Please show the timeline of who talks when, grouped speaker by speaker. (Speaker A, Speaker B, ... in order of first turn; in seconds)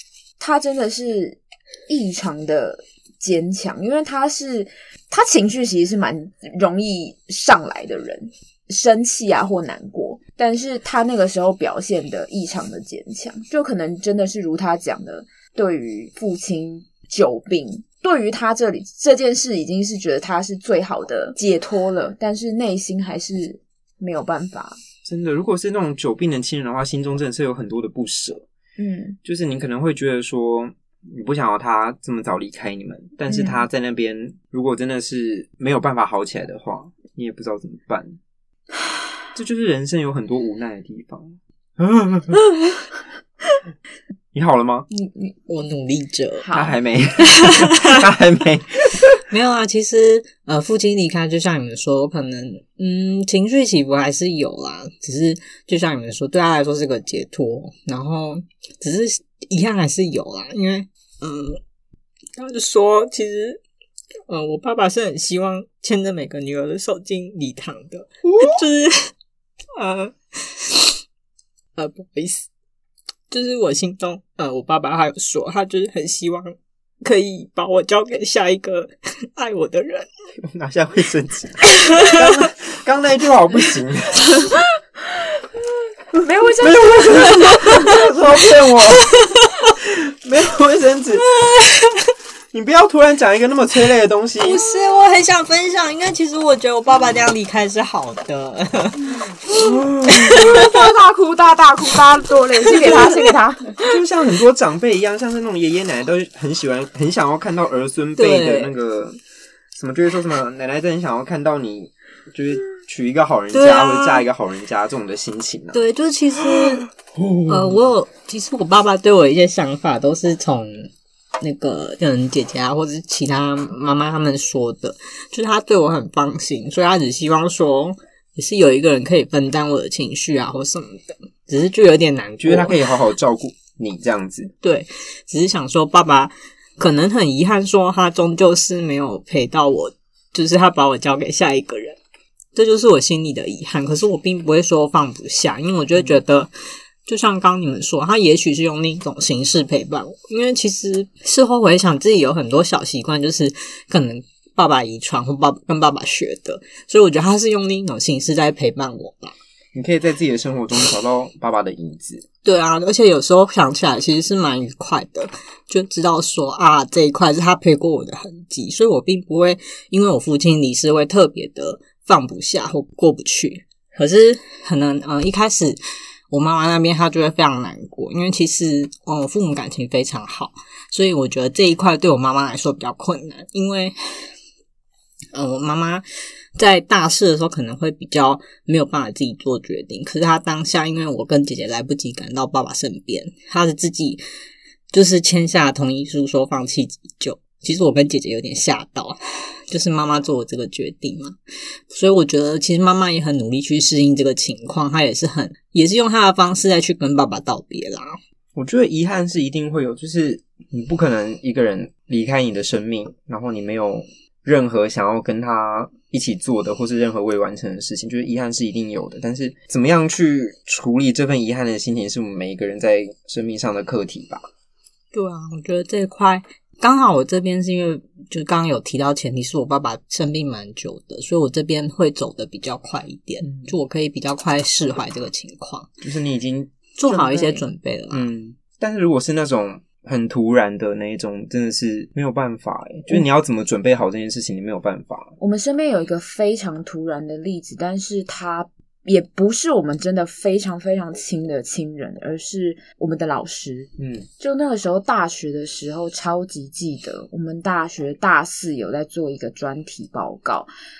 Speaker A: 0.4-24.8, 28.8-29.2, 33.3-33.6, 44.9-45.3, 46.4-46.8, 86.2-87.9, 100.2-104.0, 237.1-237.7, 245.4-260.7
Speaker B: 25.1-28.4, 29.2-38.2, 39.4-42.4, 44.3-44.9, 46.5-49.2, 68.3-68.6, 80.4-84.5, 86.6-89.1, 89.7-91.3, 92.5-94.7, 99.5-100.7, 103.8-109.2, 109.7-115.8, 116.4-117.9, 132.4-134.5, 159.7-162.3, 208.6-224.4, 233.4-233.7, 236.0-236.7, 238.1-245.3, 254.0-254.3
Speaker C: 45.5-46.5, 47.4-48.0, 49.3-61.6, 62.4-63.6, 64.3-69.1, 69.8-71.0, 71.8-72.5, 73.3-80.1, 81.8-82.4, 87.2-88.0, 89.2-89.6, 91.3-92.1, 94.4-99.1, 100.1-100.7, 102.8-103.3, 108.2-108.7, 113.5-114.3, 115.7-116.9, 117.5-132.8, 134.6-142.0, 142.5-146.5, 147.1-159.4, 162.4-175.8, 176.3-184.3, 185.3-186.1, 186.6-194.2, 194.9-199.2, 199.7-201.4, 201.9-208.2, 225.1-235.9, 237.0-238.3